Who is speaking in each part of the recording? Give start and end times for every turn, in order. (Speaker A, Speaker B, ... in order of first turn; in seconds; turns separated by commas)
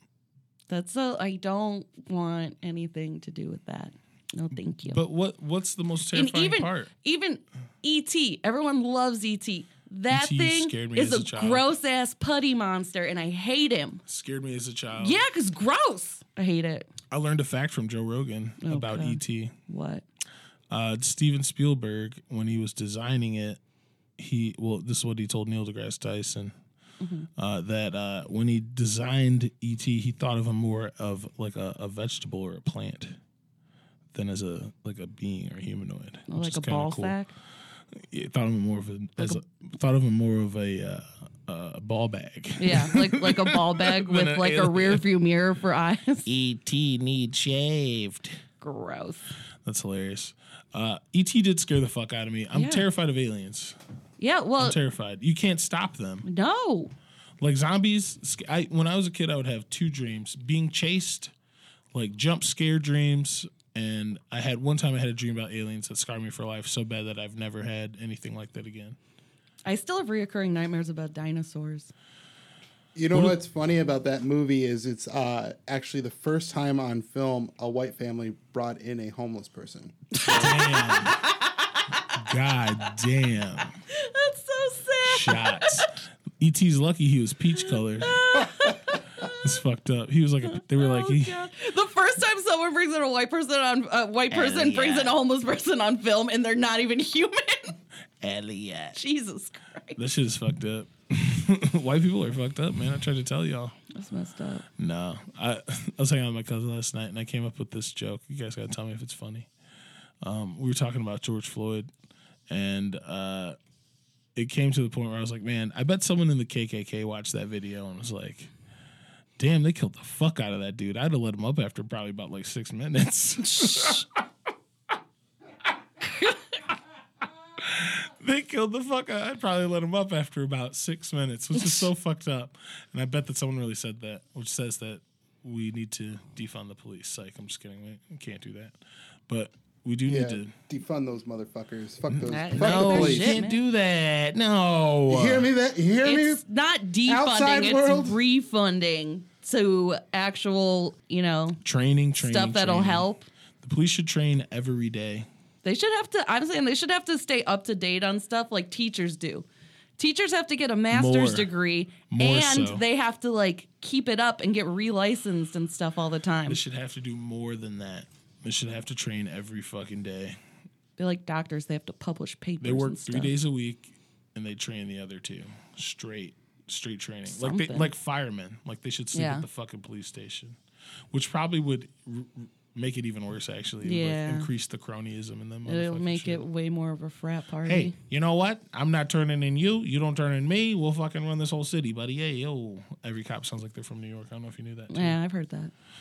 Speaker A: 0.7-5.0, Speaker B: 4.9-6.9, Speaker A: 6.1-14.0, Speaker B: 10.1-11.6, Speaker B: 14.1-15.2, Speaker A: 15.0-16.9, Speaker B: 17.1-19.5, Speaker A: 18.6-20.0, Speaker B: 20.7-23.6, Speaker B: 24.2-26.5, Speaker A: 27.0-27.3, Speaker B: 27.4-33.2, Speaker B: 34.1-37.2, Speaker A: 36.3-37.3, Speaker B: 38.1-45.0, Speaker A: 42.6-46.3, Speaker B: 46.2-48.4, Speaker A: 48.6-49.2, Speaker B: 49.6-53.8, Speaker A: 52.5-52.8, Speaker A: 54.2-54.8, Speaker B: 54.6-56.2, Speaker A: 56.2-56.9, Speaker B: 57.4-61.3, Speaker B: 61.9-69.0, Speaker A: 69.6-71.9, Speaker C: 72.9-80.2, Speaker A: 80.1-82.1, Speaker B: 80.2-81.2, Speaker B: 82.1-83.7, Speaker A: 83.9-85.9, Speaker B: 85.0-88.2, Speaker A: 88.0-89.4, Speaker B: 89.4-91.4, Speaker A: 90.5-97.8, Speaker B: 94.3-95.1, Speaker B: 98.2-99.0, Speaker A: 98.9-100.0, Speaker B: 100.0-103.7, Speaker A: 103.9-104.6, Speaker B: 104.8-109.5, Speaker B: 110.2-111.9, Speaker B: 112.5-113.5, Speaker B: 114.3-118.5, Speaker B: 119.4-124.0, Speaker A: 123.5-124.0, Speaker B: 127.6-138.7, Speaker B: 139.3-140.5, Speaker C: 140.1-143.4, Speaker B: 142.1-145.5, Speaker A: 142.2-143.6, Speaker C: 145.1-146.4, Speaker A: 146.0-151.6, Speaker C: 147.1-148.2, Speaker B: 151.6-153.1, Speaker A: 152.2-153.2, Speaker B: 153.6-155.3, Speaker A: 155.6-159.5, Speaker A: 160.0-166.6, Speaker B: 160.9-161.5, Speaker B: 162.1-162.8, Speaker B: 166.5-170.4, Speaker A: 171.0-173.3, Speaker B: 172.6-180.6, Speaker A: 177.3-177.9, Speaker A: 179.1-179.4, Speaker B: 181.1-186.4, Speaker A: 183.8-184.5, Speaker A: 185.7-187.9, Speaker B: 187.6-195.2, Speaker A: 194.9-195.7